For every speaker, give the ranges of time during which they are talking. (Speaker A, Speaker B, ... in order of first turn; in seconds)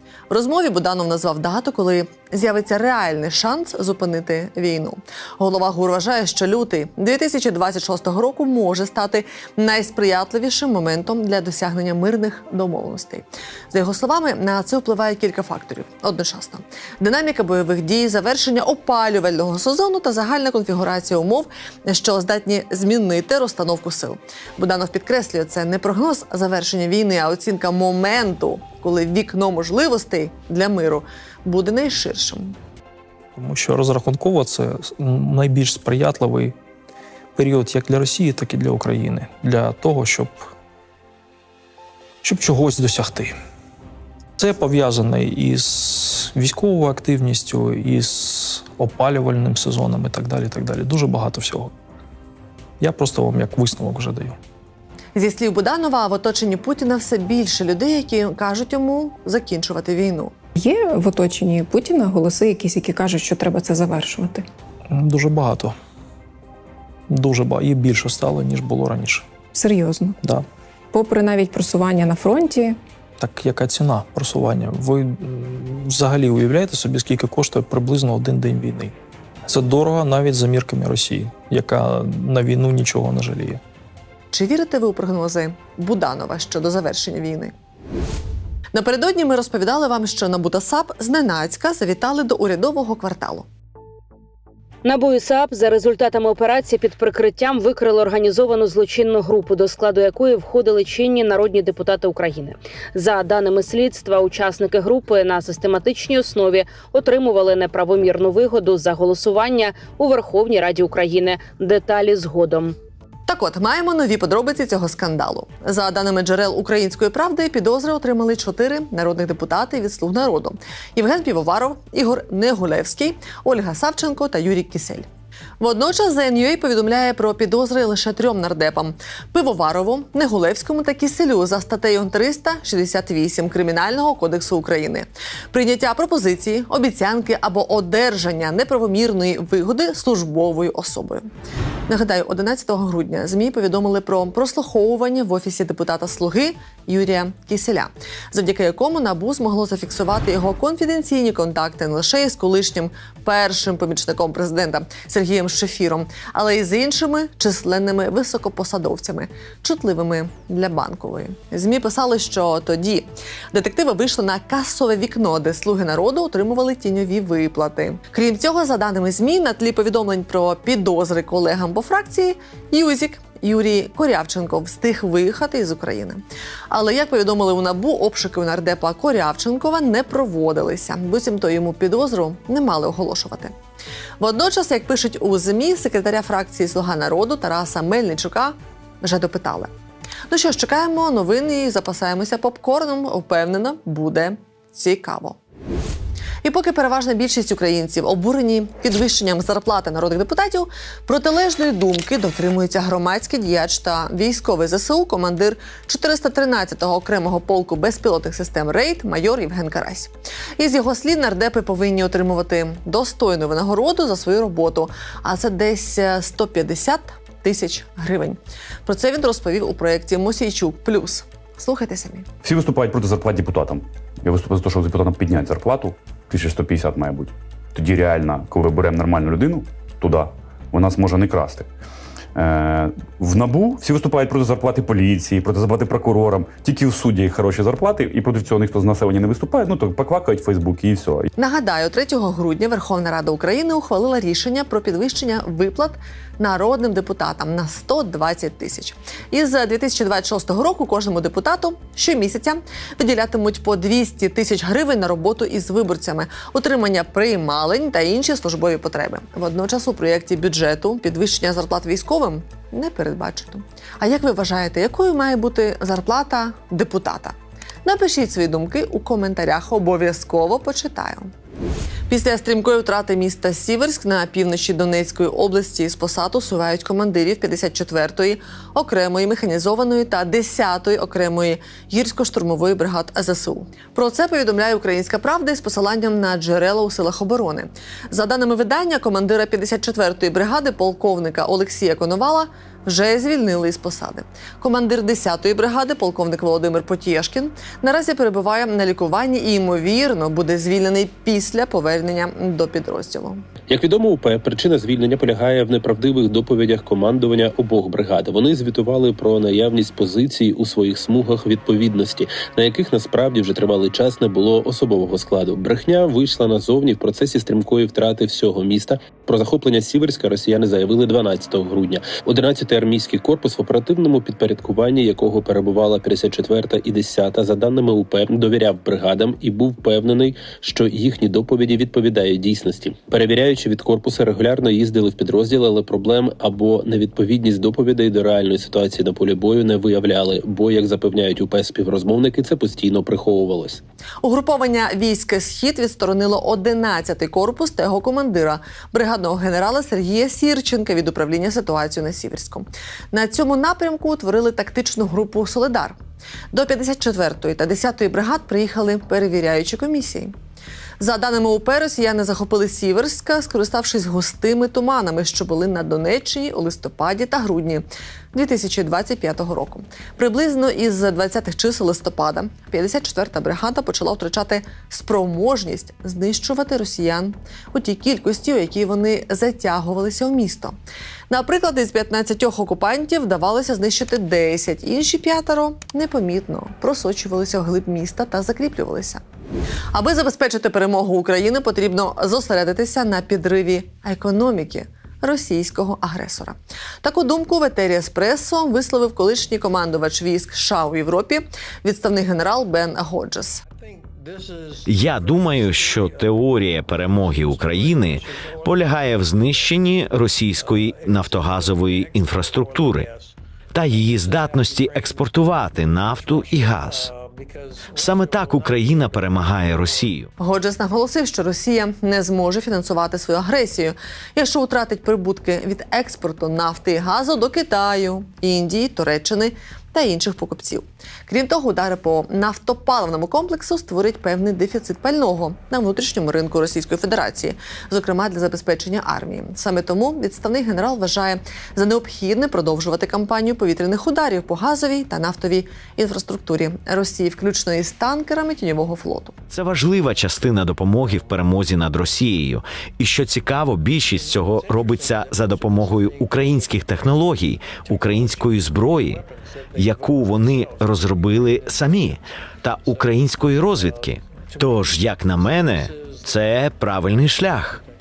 Speaker A: 0.3-32.6, 55.1-60.3, 84.3-87.5, 88.7-93.5, 113.3-125.1, 125.6-141.3, 141.9-183.5, 184.2-189.7, 190.3-195.4, 196.4-222.3, 241.4-271.3, 272.1-303.4, 344.2-356.0, 356.5-360.4, 361.0-380.8, 381.3-389.2, 389.9-403.6, 420.4-449.3
Speaker B: 33.4-36.5, 37.4-40.5, 42.2-43.3, 44.4-51.7, 52.8-54.4, 64.9-65.8, 67.1-69.3, 73.2-78.9, 79.5-83.6
Speaker C: 60.6-64.5, 69.5-70.2, 70.9-72.8
Speaker D: 94.8-112.8
Speaker E: 222.4-231.7, 232.3-241.3
Speaker F: 303.7-343.8
Speaker G: 404.9-413.1, 413.7-417.1, 417.9-420.3, 449.5-467.8